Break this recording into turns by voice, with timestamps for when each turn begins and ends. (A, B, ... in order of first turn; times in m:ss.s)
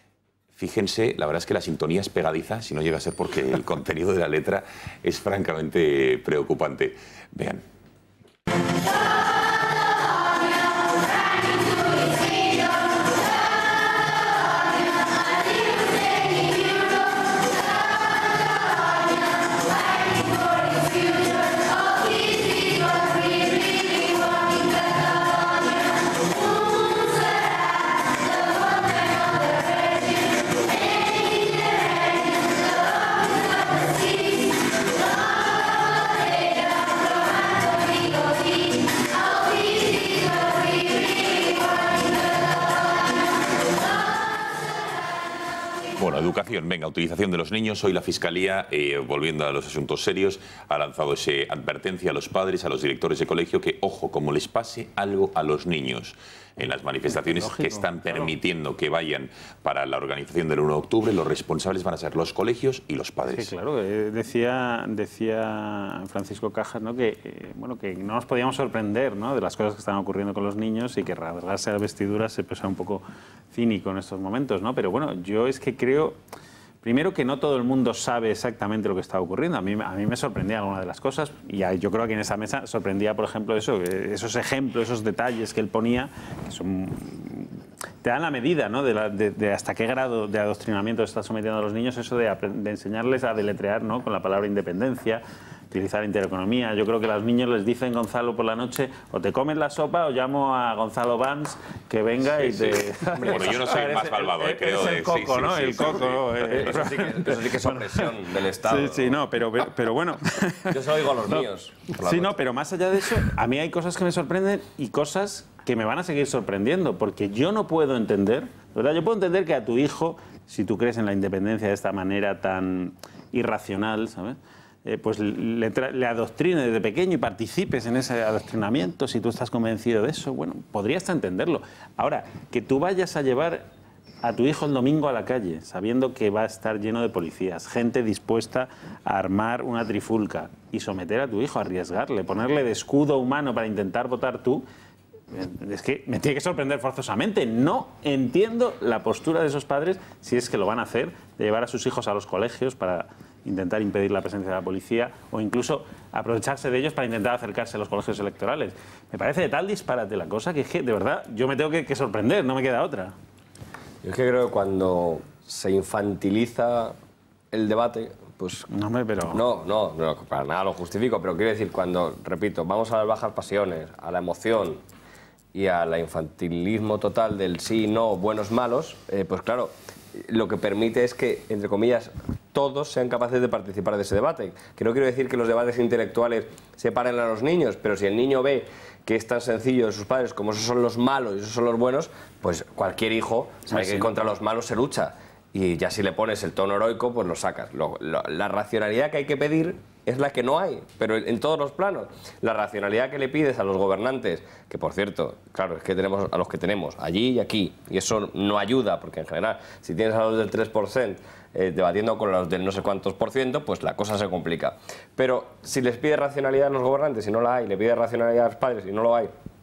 0:00.6-0:07.6 A
0:46.0-1:03.5 A
0:57.5-0:58.2 B
1:03.3-1:16.2 B
1:16.8-1:27.5 B
1:28.0-1:47.3 B
1:42.5-1:42.8 C
1:43.2-1:46.2 A
1:46.1-1:49.4 C
1:49.0-1:50.1 B
1:50.7-1:52.4 C
1:52.1-2:13.7 B
2:14.2-2:24.6 B
2:25.3-2:43.1 B
2:44.0-2:47.0 C
2:47.5-2:48.6 C
2:48.7-2:49.4 B
2:49.3-2:54.8 C
2:55.5-3:39.3 C